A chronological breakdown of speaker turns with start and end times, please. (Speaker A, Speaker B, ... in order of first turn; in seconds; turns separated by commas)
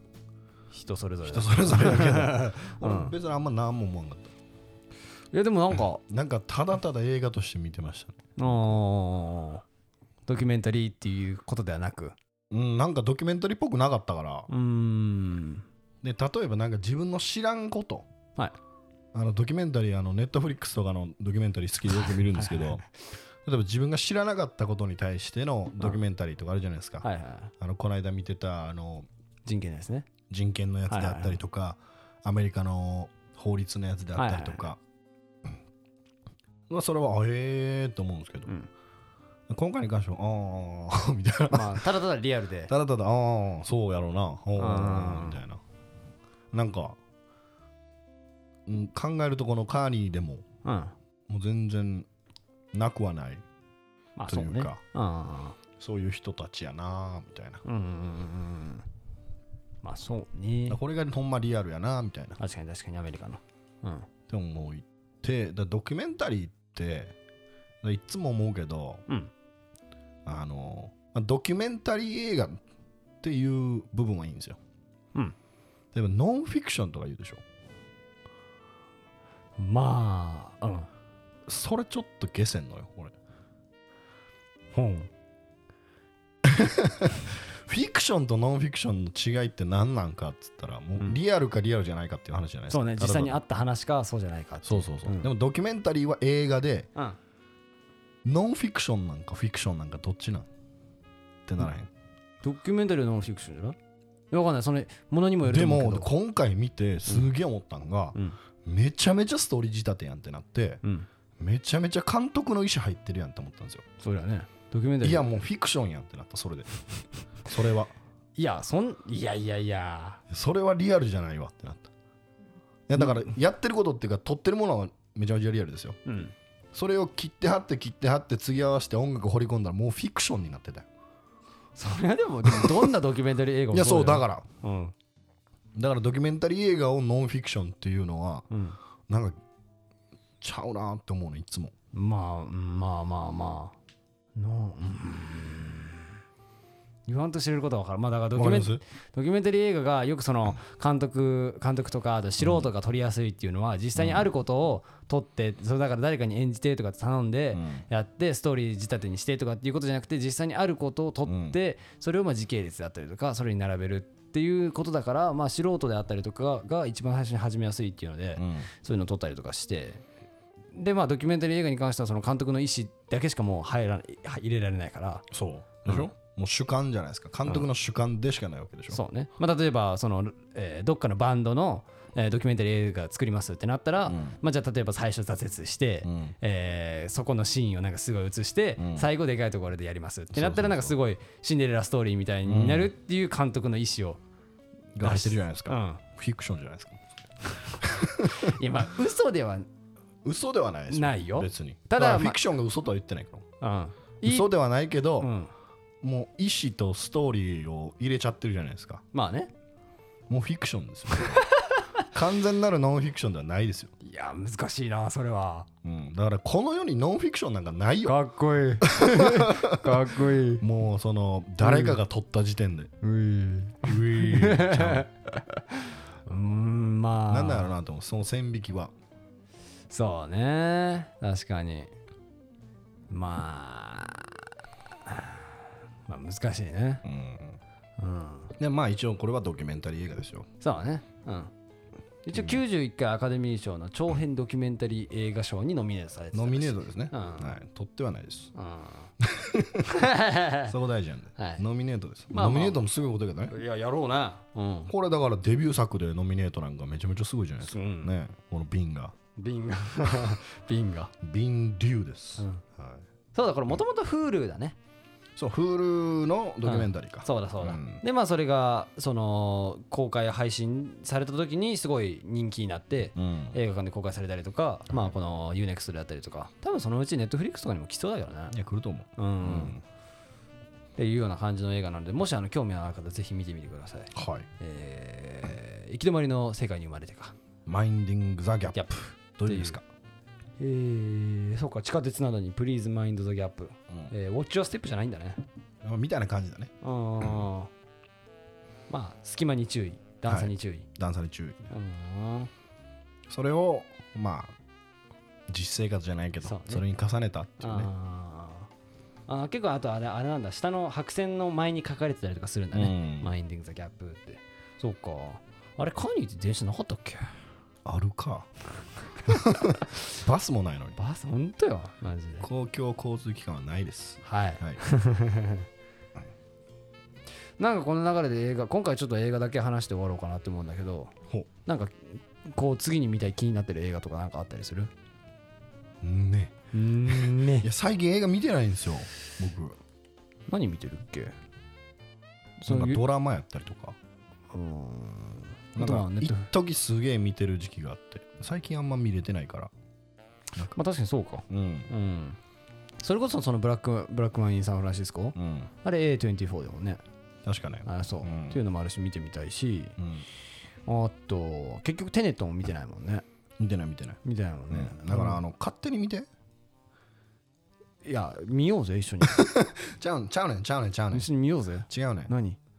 Speaker A: 0.7-3.1, Speaker B: 1.2-4.3, Speaker A: 5.3-6.0, Speaker B: 6.1-8.8, Speaker A: 8.4-9.6, Speaker A: 10.3-12.1, Speaker B: 12.5-14.5, Speaker A: 14.5-15.7, Speaker B: 16.0-18.1, Speaker B: 19.1-22.8, Speaker A: 21.9-22.8, Speaker B: 23.4-27.1, Speaker A: 27.0-27.5, Speaker B: 27.6-29.1, Speaker A: 29.4-30.1, Speaker B: 30.3-34.8, Speaker A: 30.9-31.4, Speaker A: 34.1-34.6, Speaker B: 36.7-38.5, Speaker B: 39.5-41.9, Speaker A: 41.5-42.7, Speaker B: 42.7-45.6, Speaker A: 44.6-45.4, Speaker B: 46.5-47.0, Speaker B: 48.6-50.4, Speaker A: 50.6-50.9, Speaker B: 51.3-52.1, Speaker B: 52.7-53.4, Speaker A: 54.2-55.6, Speaker B: 54.3-54.8, Speaker B: 55.8-57.6, Speaker A: 57.6-58.9, Speaker A: 59.8-60.8, Speaker B: 60.7-62.4, Speaker A: 62.4-64.1, Speaker B: 64.3-67.1, Speaker B: 67.8-69.0, Speaker B: 70.2-72.6, Speaker B: 73.2-74.6, Speaker B: 75.9-77.4, Speaker A: 79.6-80.9, Speaker B: 81.5-83.1, Speaker A: 84.7-85.1, Speaker B: 86.4-93.4, Speaker A: 92.7-95.3, Speaker B: 94.6-96.9, Speaker B: 98.2-100.5, Speaker B: 101.5-101.9, Speaker A: 102.4-103.8, Speaker A: 104.3-106.1, Speaker B: 105.4-110.8, Speaker B: 111.4-113.8, Speaker A: 114.0-115.3, Speaker B: 115.0-116.7, Speaker B: 117.4-117.9, Speaker A: 118.3-120.2, Speaker B: 120.3-121.9, Speaker B: 122.9-126.0, Speaker A: 126.0-126.3, Speaker B: 126.7-130.8, Speaker A: 131.8-134.9, Speaker B: 132.4-132.9, Speaker B: 133.7-134.4, Speaker B: 135.7-138.5, Speaker A: 138.5-138.8, Speaker B: 139.1-139.4, Speaker B: 140.4-141.7, Speaker A: 141.9-143.7, Speaker A: 144.3-146.2, Speaker A: 147.1-170.0, Speaker B: 148.3-148.8, Speaker B: 152.4-152.7, Speaker B: 154.0-154.3, Speaker B: 157.5-157.8, Speaker B: 161.2-161.6, Speaker B: 168.4-168.7, Speaker A: 170.7-175.3, Speaker B: 175.3-179.0, Speaker A: 178.9-194.2, Speaker B: 184.1-184.4, Speaker B: 186.0-186.3, Speaker B: 188.8-189.1, Speaker B: 190.3-190.9, Speaker B: 192.4-192.9, Speaker B: 194.9-197.0, Speaker A: 195.0-196.0, Speaker B: 197.8-198.6, Speaker A: 198.2-199.7, Speaker B: 200.2-203.4, Speaker A: 200.9-202.4, Speaker A: 203.6-204.5, Speaker B: 204.2-205.3, Speaker A: 205.2-205.5, Speaker B: 206.0-209.0, Speaker A: 209.1-209.5, Speaker B: 210.3-211.4, Speaker A: 211.1-212.1, Speaker B: 212.0-213.9, Speaker A: 214.0-215.7, Speaker B: 215.8-218.2, Speaker A: 218.0-220.6, Speaker B: 218.8-220.1, Speaker B: 220.6-222.9, Speaker A: 221.6-222.0, Speaker A: 223.0-227.7, Speaker B: 223.8-225.1, Speaker B: 227.3-228.9, Speaker A: 229.9-231.9, Speaker A: 233.1-234.5, Speaker A: 235.0-237.0, Speaker B: 237.0-237.6, Speaker A: 238.0-238.5, Speaker B: 238.6-240.5, Speaker A: 240.6-241.5, Speaker A: 242.2-247.6, Speaker B: 242.3-242.6, Speaker B: 246.3-248.5, Speaker A: 248.5-249.1, Speaker B: 249.2-250.0, Speaker A: 249.8-250.7, Speaker B: 250.7-253.5, Speaker A: 251.4-251.6, Speaker A: 252.3-252.8, Speaker A: 253.5-254.9, Speaker B: 254.9-259.1, Speaker A: 257.6-258.1, Speaker A: 259.4-261.1, Speaker B: 261.2-263.1, Speaker A: 262.4-262.6, Speaker A: 263.3-264.8, Speaker B: 265.4-268.0, Speaker A: 266.6-278.5, Speaker B: 273.1-273.6, Speaker B: 278.5-279.8, Speaker A: 279.2-279.8, Speaker A: 281.0-287.3, Speaker B: 284.1-284.5, Speaker B: 287.6-289.8, Speaker A: 288.7-289.8, Speaker A: 290.6-295.4, Speaker B: 295.8-297.4, Speaker A: 296.8-297.7, Speaker A: 298.9-300.9, Speaker B: 300.3-301.7, Speaker A: 301.7-302.5, Speaker B: 303.3-304.5, Speaker B: 305.5-307.9, Speaker A: 306.4-306.8, Speaker A: 307.6-308.7, Speaker A: 309.3-317.3, Speaker B: 312.7-313.3, Speaker B: 317.8-318.5, Speaker A: 319.2-320.0, Speaker B: 319.3-321.0, Speaker A: 321.0-322.5, Speaker B: 322.4-324.8, Speaker A: 324.2-325.7, Speaker A: 327.6-331.1, Speaker A: 331.6-334.9, Speaker B: 336.0-336.5, Speaker A: 336.7-337.7, Speaker B: 337.1-339.8, Speaker A: 340.5-341.4, Speaker A: 342.6-343.0, Speaker B: 342.7-344.0, Speaker A: 344.5-346.5, Speaker B: 345.8-349.7, Speaker A: 350.7-352.4, Speaker B: 351.5-351.9, Speaker A: 353.0-357.0, Speaker B: 355.4-355.7, Speaker B: 357.4-358.6, Speaker A: 357.9-359.9, Speaker B: 360.0-360.2, Speaker A: 360.9-363.2, Speaker B: 363.6-364.2, Speaker A: 364.2-365.4, Speaker B: 364.7-366.3, Speaker A: 368.0-369.4, Speaker B: 369.3-371.3, Speaker A: 371.1-372.6, Speaker B: 371.9-372.3